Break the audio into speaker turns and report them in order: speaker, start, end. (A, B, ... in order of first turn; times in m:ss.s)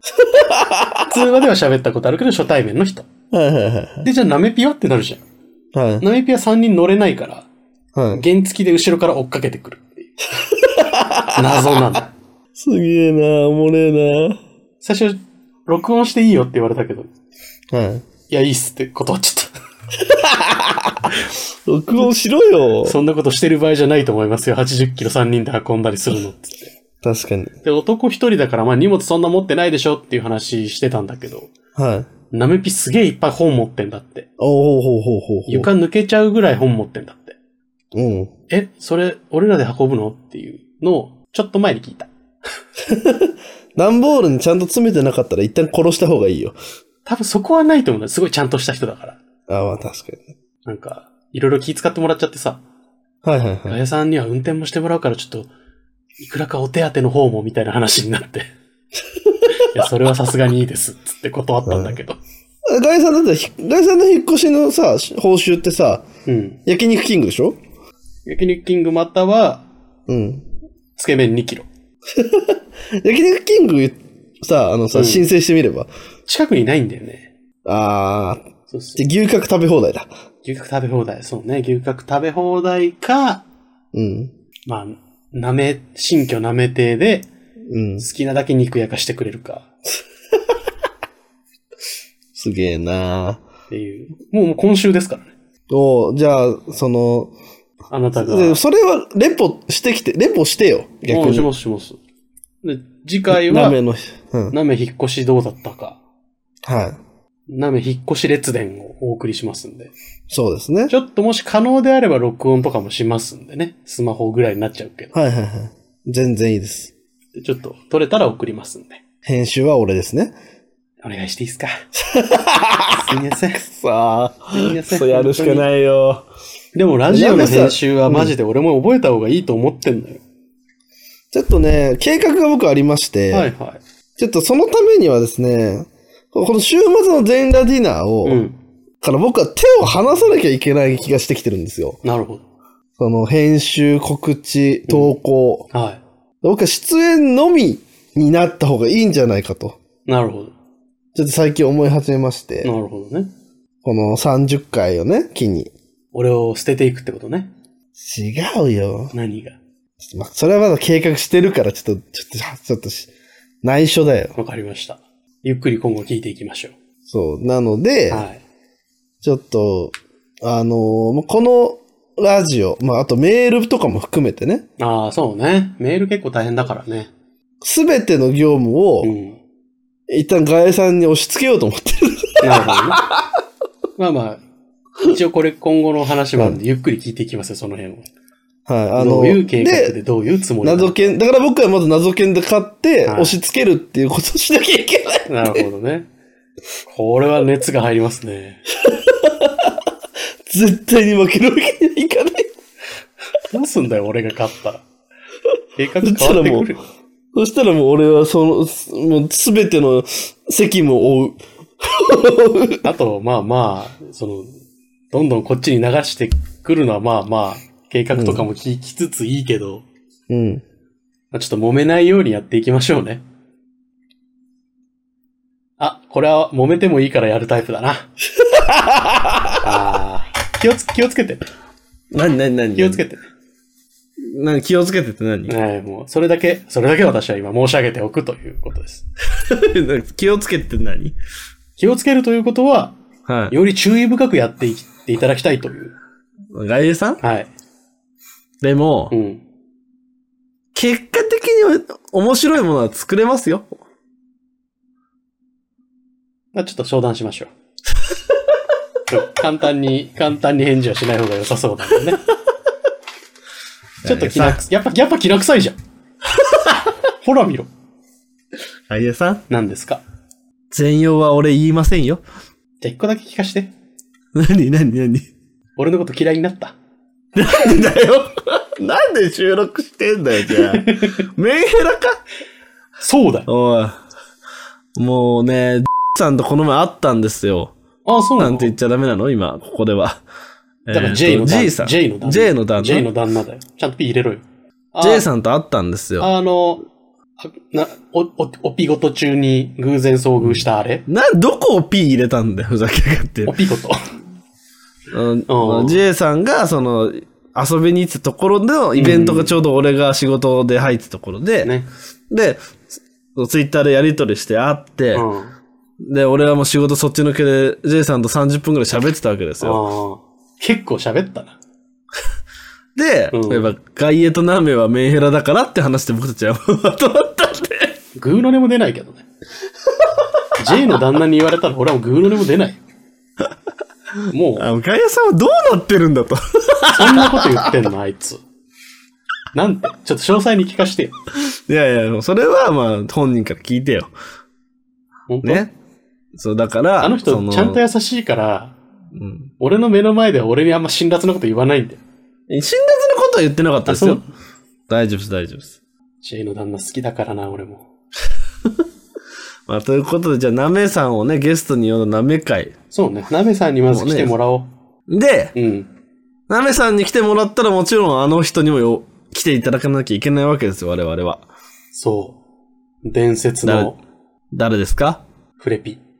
0:00.2-0:01.1 A
0:01.0-0:03.1 B
0:03.3-0:04.1 A
0:04.0-0:05.2 B
0:05.7-0:06.0 A
0:06.0-0:07.5 B
0:07.9-0:08.2 A
0:08.1-0:10.1 B
0:10.5-0:11.6 A
0:11.3-0:12.1 B
0:12.5-0:14.4 A
0:14.8-0:17.1 B
0:17.7-0:18.0 A
0:18.3-0:19.5 B
0:20.0-0:21.1 A
0:21.6-0:23.0 A
0:22.8-0:26.7 B
0:27.0-0:27.5 A
0:27.6-0:31.5 B
0:31.7-0:32.1 A
0:32.3-0:34.3 B
0:34.4-0:35.7 A
0:35.5-0:37.4 B
0:37.9-0:38.3 A
0:38.5-0:42.1 B
0:42.8-0:46.6 A
0:47.0-0:49.2 B
0:49.5-0:50.3 A
0:50.6-0:52.6 B
0:53.2-0:53.8 A
0:53.7-0:55.5 B
0:56.2-0:58.5 B
0:59.5-1:02.2 B
1:01.6-1:02.0 A
1:02.6-1:06.1 A
1:06.2-1:06.6 B
1:06.6-1:07.6 A
1:08.2-1:09.7 B
1:10.1-1:10.4 A
1:11.0-1:11.7 B
1:12.1-1:15.9 A
1:14.9-1:15.2 B
1:16.3-1:17.3 B
1:17.6-1:20.1 A
1:18.7-1:19.0 B
1:20.4-1:23.4 B
1:23.9-1:24.3 A
1:24.7-1:27.3 B
1:27.7-1:28.0 A
1:28.0-1:29.7 B
1:32.3-1:33.4 A
1:33.7-1:35.3 B
1:35.7-1:37.3 A
1:37.9-1:38.6 B
1:38.2-1:41.5 A
1:41.1-1:42.0 B
1:42.6-1:43.8 B
1:43.3-1:44.6 A
1:44.5-1:46.0 B
1:46.6-1:47.0 A
1:47.5-1:49.9 B
1:50.3-1:50.9 A
1:50.9-1:55.1 B
1:55.1-1:56.9 A
1:57.4-1:59.0 B
1:59.2-2:00.3 A
2:01.0-2:01.8 B
2:02.0-2:06.3 A
2:03.0-2:03.6 B
2:04.5-2:05.7 B
2:06.7-2:10.2 B
2:07.1-2:08.3 A
2:11.3-2:13.5 A
2:13.3-2:13.8 B
2:14.2-2:18.4 A
2:18.2-2:18.6 B
2:19.0-2:22.0 A
2:22.0-2:22.4 B
2:23.0-2:25.7 A
2:24.9-2:25.1 B
2:25.7-2:26.0 B
2:26.4-2:29.8 A
2:30.1-2:30.5 B
2:31.1-2:32.7 A
2:32.6-2:33.3 B
2:33.8-2:35.7 A
2:36.1-2:37.5 B
2:38.0-2:39.1 A
2:39.1-2:39.6 B
2:40.0-2:43.1 A
2:43.6-2:44.3 A
2:44.3-2:46.7 B
2:47.0-2:48.2 A
2:48.1-2:48.4 B
2:49.2-2:54.7 A
2:54.8-2:57.1 B
2:57.6-2:59.1 A
2:59.0-2:59.4 B
3:00.1-3:03.3 A
3:02.4-3:03.0 B
3:04.0-3:04.4 B
3:05.0-3:08.1 B
3:08.7-3:10.0 A
3:09.0-3:11.0 B
3:10.6-3:15.6 A
3:13.0-3:13.3 B
3:15.3-3:16.1 B
3:16.8-3:18.6 B
3:18.8-3:19.8 A
3:20.5-3:22.5 A
3:23.5-3:24.8 B
3:25.8-3:26.9 B
3:26.0-3:26.7 A
3:27.3-3:32.8 A
3:32.8-3:34.6 B
3:35.1-3:39.8 B
3:38.1-3:38.4 A
3:40.3-3:40.6 A
3:41.3-3:43.2 B
3:45.8-3:48.1 B
3:48.4-3:49.6 A
3:49.6-3:51.4 B
3:52.1-3:53.0 A
3:52.8-3:53.3 B
3:54.2-3:55.5 A
3:55.5-3:59.0 B
3:59.3-4:01.2 A
4:01.8-4:03.0 B
4:03.2-4:03.6 A
4:03.5-4:05.9 B
4:06.5-4:07.2 A
4:07.2-4:07.5 B
4:08.6-4:09.1 A
4:09.1-4:09.4 B
4:10.7-4:13.8 A
4:16.5-4:17.5 B
4:19.1-4:22.2 B
4:24.0-4:24.6 A
4:24.0-4:25.8 B
4:27.2-4:27.7 B
4:28.9-4:29.4 A
4:29.5-4:30.0 B
4:30.7-4:32.2 A
4:32.8-4:33.7 B
4:34.3-4:35.3 A
4:35.8-4:36.8 B
4:37.3-4:42.2 A
4:40.5-4:41.2 B
4:43.0-4:43.5 B
4:43.5-4:44.0 A
4:45.0-4:47.7 A
4:48.0-4:48.7 B
4:48.4-4:50.2 A
4:50.9-4:53.1 A
4:50.9-4:55.2 B
4:55.0-4:56.3 A
4:56.2-4:56.8 B
4:57.4-5:01.0 B
5:00.4-5:03.6 A
5:03.4-5:04.0 B
5:05.1-5:11.7 A
5:05.5-5:06.0 B
5:08.9-5:09.5 B
5:11.6-5:11.9 B
5:12.3-5:15.2 A
5:15.1-5:15.5 B
5:16.0-5:19.8 A
5:19.6-5:21.6 B
5:23.0-5:28.0 A
5:23.3-5:23.7 B
5:28.2-5:29.2 B
5:30.6-5:32.8 B
5:34.3-5:34.7 B
5:34.6-5:37.7 A
5:36.9-5:38.4 B
5:39.5-5:41.1 B
5:41.4-5:44.1 A
5:45.3-5:45.7 B
5:45.4-5:45.7 A
5:46.3-5:47.8 A
5:47.0-5:48.8 B
5:49.1-5:49.5 A
5:49.6-5:52.0 B
5:52.5-5:54.2 A
5:53.9-5:54.2 B
5:54.9-5:55.8 A
5:56.2-5:57.9 B
5:59.7-6:02.7 A
6:02.9-6:04.7 B
6:03.9-6:04.3 A
6:05.1-6:05.5 A
6:05.5-6:05.9 B
6:06.5-6:11.4 A
6:11.9-6:12.4 B
6:13.0-6:14.0 B
6:13.6-6:13.9 A
6:14.5-6:15.2 A
6:15.6-6:16.0 B